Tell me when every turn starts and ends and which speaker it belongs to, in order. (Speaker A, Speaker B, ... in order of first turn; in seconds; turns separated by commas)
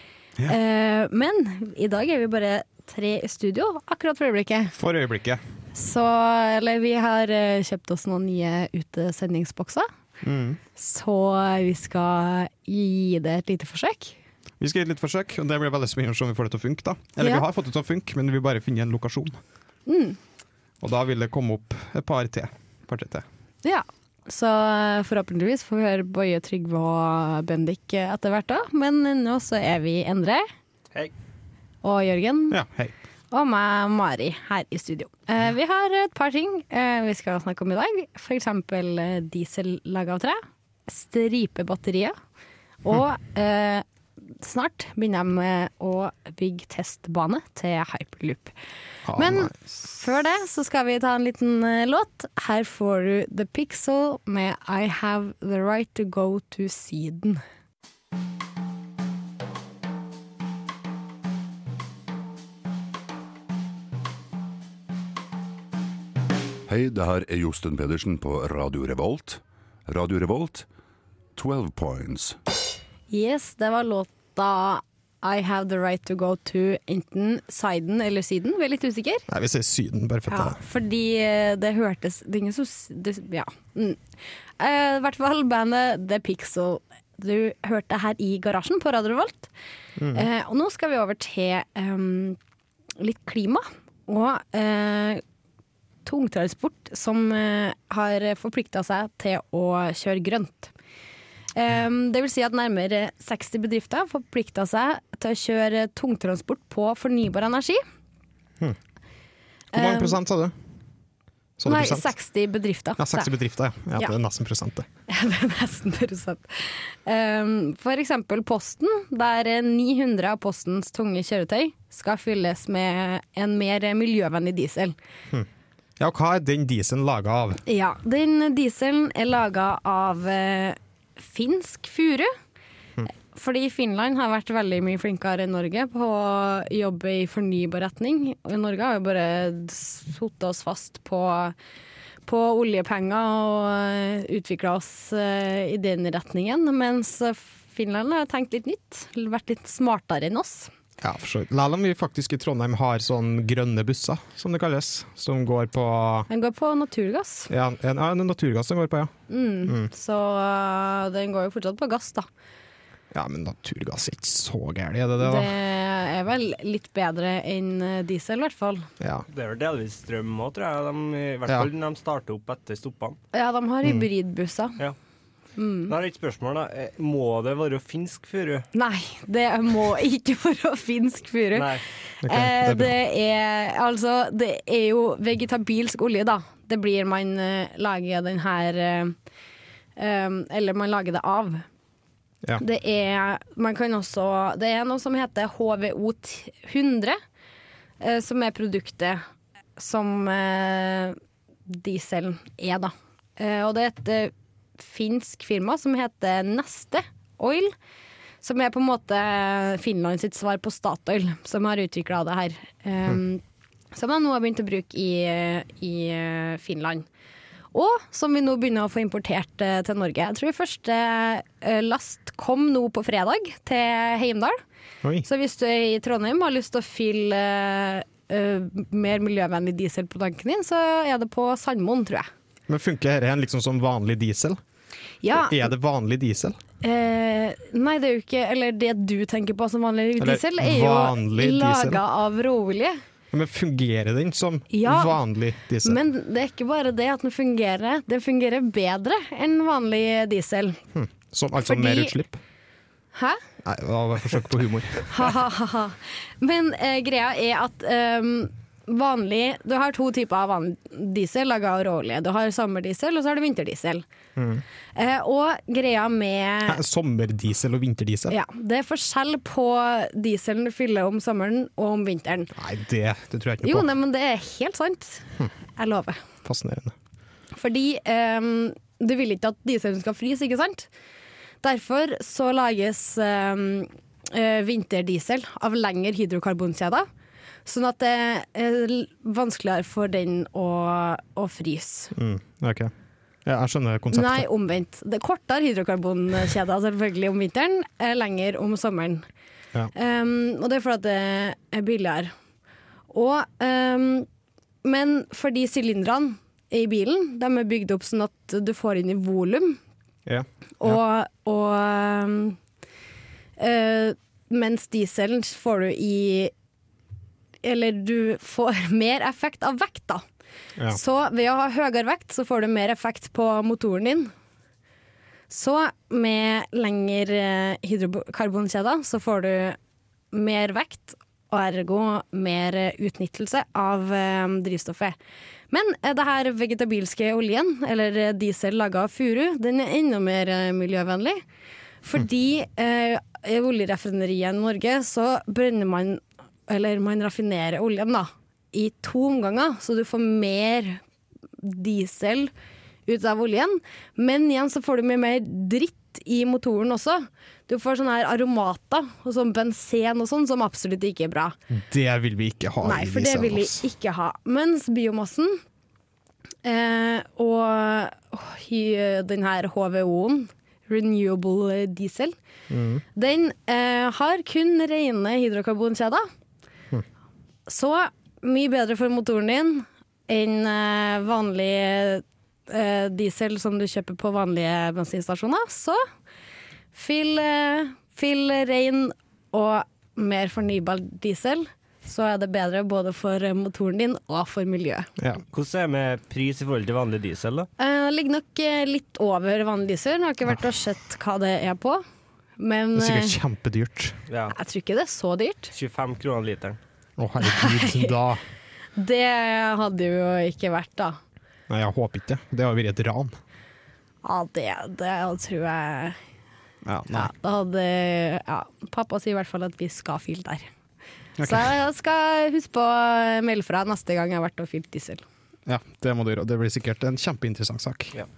Speaker A: 0.5-4.7, Speaker B: 4.7-5.4, Speaker A: 5.7-9.9, Speaker B: 10.2-10.6, Speaker A: 10.8-14.2, Speaker B: 14.6-19.4, Speaker A: 17.2-17.4, Speaker A: 19.9-20.2, Speaker B: 20.8-23.2, Speaker A: 23.6-30.5, Speaker A: 31.8-32.6, Speaker B: 32.5-32.9, Speaker A: 33.3-42.2, Speaker A: 42.8-48.5, Speaker B: 49.0-49.5, Speaker A: 49.1-57.4, Speaker C: 66.7-70.7, Speaker C: 71.3-72.4, Speaker A: 73.1-79.2, Speaker B: 79.3-80.6, Speaker A: 80.3-84.0, Speaker A: 84.6-89.5, Speaker B: 90.0-90.3, Speaker A: 90.1-92.4, Speaker A: 93.0-95.2, Speaker A: 96.0-100.7, Speaker A: 101.5-107.8, Speaker A: 109.7-110.2, Speaker B: 109.7-110.5, Speaker B: 111.6-112.1, Speaker A: 111.7-113.3, Speaker B: 113.0-114.8, Speaker A: 115.1-125.0, Speaker B: 126.0-127.6, Speaker A: 127.7-132.3, Speaker A: 133.3-141.5, Speaker A: 142.2-150.7, Speaker B: 151.0-156.3, Speaker A: 156.3-157.5, Speaker B: 157.5-159.1, Speaker A: 159.3-162.3, Speaker B: 163.1-165.5, Speaker A: 165.2-168.9, Speaker B: 169.0-169.2, Speaker D: 169.3-173.2, Speaker A: 173.3-174.8, Speaker A: 175.6-175.9, Speaker D: 175.9-178.7, Speaker A: 178.7-189.2, Speaker D: 181.5-181.8, Speaker B: 182.2-182.9, Speaker A: 190.0-191.6, Speaker A: 192.6-197.2, Speaker A: 198.0-199.2, Speaker A: 199.8-201.2, Speaker A: 201.7-207.7, Speaker A: 208.4-213.4, Speaker A: 213.9-217.1, Speaker A: 217.7-224.6, Speaker A: 225.2-232.3, Speaker B: 232.7-234.6, Speaker A: 235.2-235.6, Speaker B: 235.3-236.6, Speaker A: 236.8-243.0, Speaker B: 240.2-242.0, Speaker B: 243.3-246.0, Speaker A: 244.7-245.2, Speaker A: 245.8-250.8, Speaker B: 250.9-252.4, Speaker A: 251.6-252.2, Speaker A: 253.1-253.4, Speaker B: 253.6-255.3, Speaker A: 255.1-264.0, Speaker B: 264.4-264.6, Speaker A: 264.9-266.8, Speaker B: 266.7-268.4, Speaker A: 268.3-272.5, Speaker B: 272.5-273.9, Speaker A: 273.6-276.2, Speaker B: 276.4-276.9, Speaker A: 277.5-280.9, Speaker A: 281.6-287.1, Speaker A: 287.6-292.1, Speaker B: 292.1-292.9, Speaker B: 293.4-294.5, Speaker A: 294.1-299.2, Speaker A: 299.9-302.3, Speaker A: 303.1-304.3, Speaker A: 304.8-309.8, Speaker B: 310.2-311.0, Speaker A: 310.8-312.6, Speaker A: 313.6-316.5, Speaker A: 317.6-320.2, Speaker A: 320.9-324.3, Speaker A: 325.5-329.8, Speaker A: 330.3-335.1, Speaker A: 335.7-341.4, Speaker A: 342.0-351.0, Speaker A: 351.6-352.5, Speaker A: 353.1-361.6, Speaker B: 361.7-363.8, Speaker A: 362.8-365.6, Speaker A: 366.6-372.3, Speaker B: 372.7-373.0, Speaker A: 373.1-376.2, Speaker A: 377.7-386.0, Speaker A: 386.9-395.1, Speaker B: 395.2-395.4, Speaker D: 395.5-397.7, Speaker A: 397.8-402.0, Speaker A: 402.6-403.4, Speaker B: 402.9-404.2, Speaker D: 404.3-404.6, Speaker A: 404.5-405.7, Speaker D: 405.7-406.8, Speaker B: 407.2-408.4, Speaker A: 407.4-408.1, Speaker A: 408.9-411.2, Speaker B: 411.7-413.3, Speaker A: 414.2-416.2, Speaker B: 416.8-417.3, Speaker A: 417.1-420.7, Speaker B: 421.4-421.7, Speaker A: 421.4-425.2, Speaker B: 425.6-428.1